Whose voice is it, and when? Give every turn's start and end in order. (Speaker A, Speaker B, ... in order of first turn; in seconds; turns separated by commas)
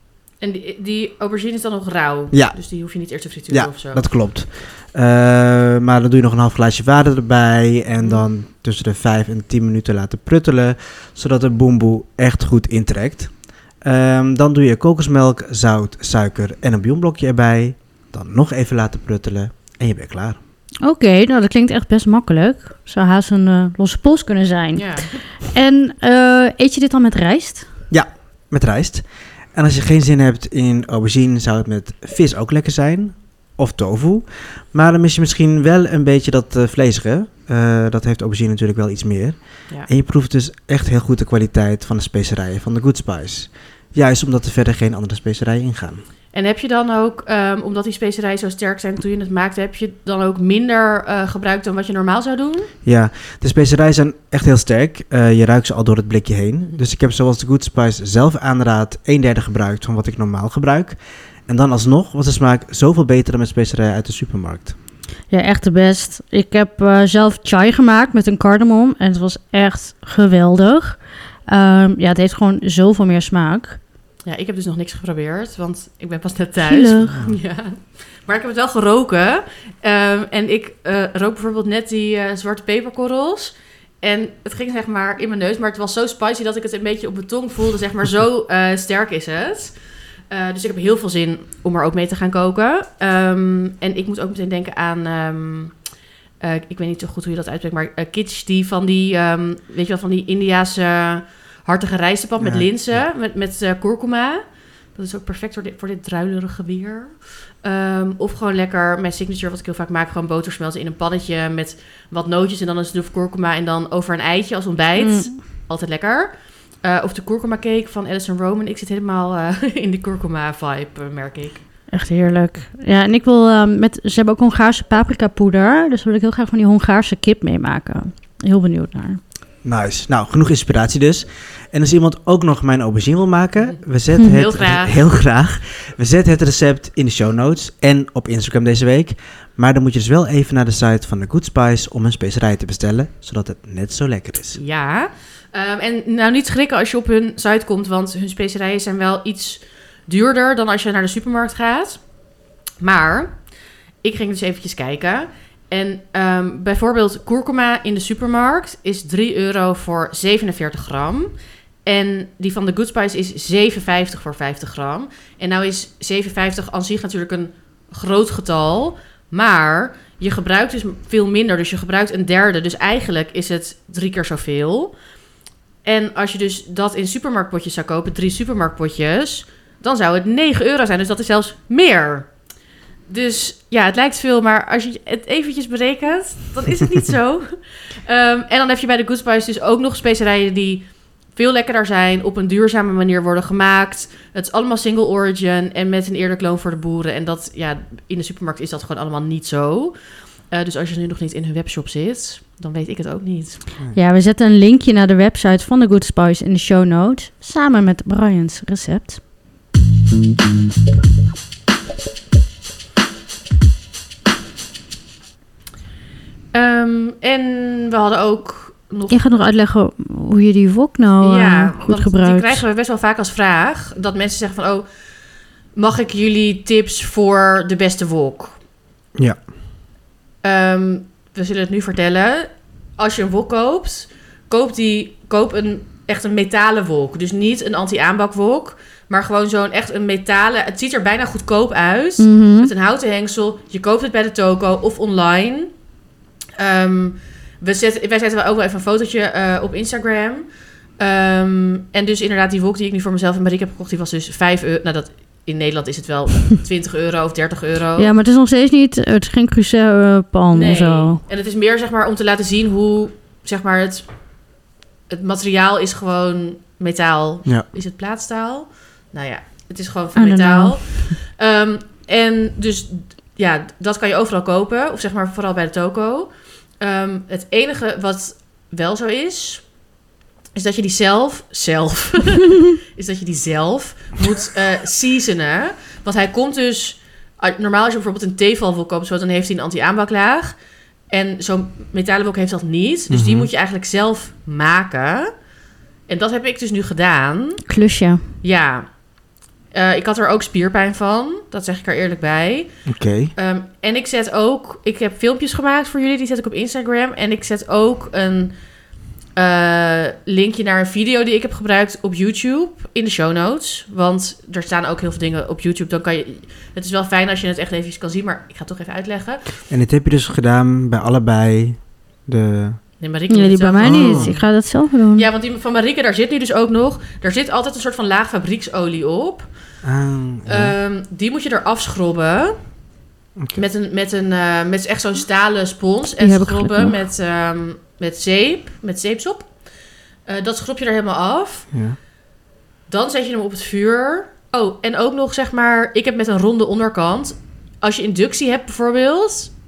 Speaker A: 0.4-4.1, Speaker B: 2.3-2.6, Speaker B: 3.5-13.3, Speaker B: 13.8-20.4, Speaker C: 20.8-27.7, Speaker A: 24.8-25.1, Speaker B: 27.9-46.0, Speaker A: 46.3-52.7, Speaker B: 52.8-64.7, Speaker C: 65.3-73.8, Speaker A: 74.2-89.8, Speaker C: 76.6-77.2, Speaker B: 77.1-77.4, Speaker A: 90.3-95.8, Speaker A: 96.4-104.4, Speaker B: 102.4-103.1, Speaker A: 105.0-121.6, Speaker C: 115.0-115.3, Speaker C: 121.9-129.2, Speaker B: 129.6-144.6, Speaker A: 134.2-135.0, Speaker A: 144.6-152.0, Speaker A: 152.8-153.4, Speaker A: 154.0-161.3, Speaker A: 161.9-174.9, Speaker A: 175.8-182.3, Speaker A: 183.1-200.0, Speaker A: 200.5-203.6, Speaker C: 203.9-209.2, Speaker A: 216.5-219.4, Speaker C: 219.1-222.6, Speaker A: 221.2-224.9, Speaker A: 225.8-228.6, Speaker B: 229.2-229.4, Speaker A: 230.4-245.7, Speaker C: 242.2-242.7, Speaker A: 246.6-250.5, Speaker A: 251.0-258.1, Speaker C: 258.0-261.2, Speaker A: 260.5-264.1, Speaker A: 265.1-276.3, Speaker C: 270.2-271.1, Speaker A: 276.8-279.6, Speaker A: 280.6-290.6, Speaker A: 291.1-295.3, Speaker B: 293.1-293.5, Speaker A: 296.1-297.6, Speaker C: 297.7-298.2, Speaker A: 298.4-298.9, Speaker A: 299.7-302.7, Speaker B: 302.9-303.3, Speaker A: 303.4-308.5, Speaker A: 309.4-319.5, Speaker B: 319.7-322.8, Speaker A: 323.0-324.5, Speaker C: 323.3-325.3, Speaker B: 323.8-324.4, Speaker A: 325.1-329.5, Speaker B: 329.8-330.8, Speaker A: 330.5-332.6, Speaker B: 333.4-333.6, Speaker A: 333.6-339.5, Speaker C: 336.2-337.0, Speaker A: 340.3-341.7, Speaker B: 341.7-342.0, Speaker A: 342.9-349.5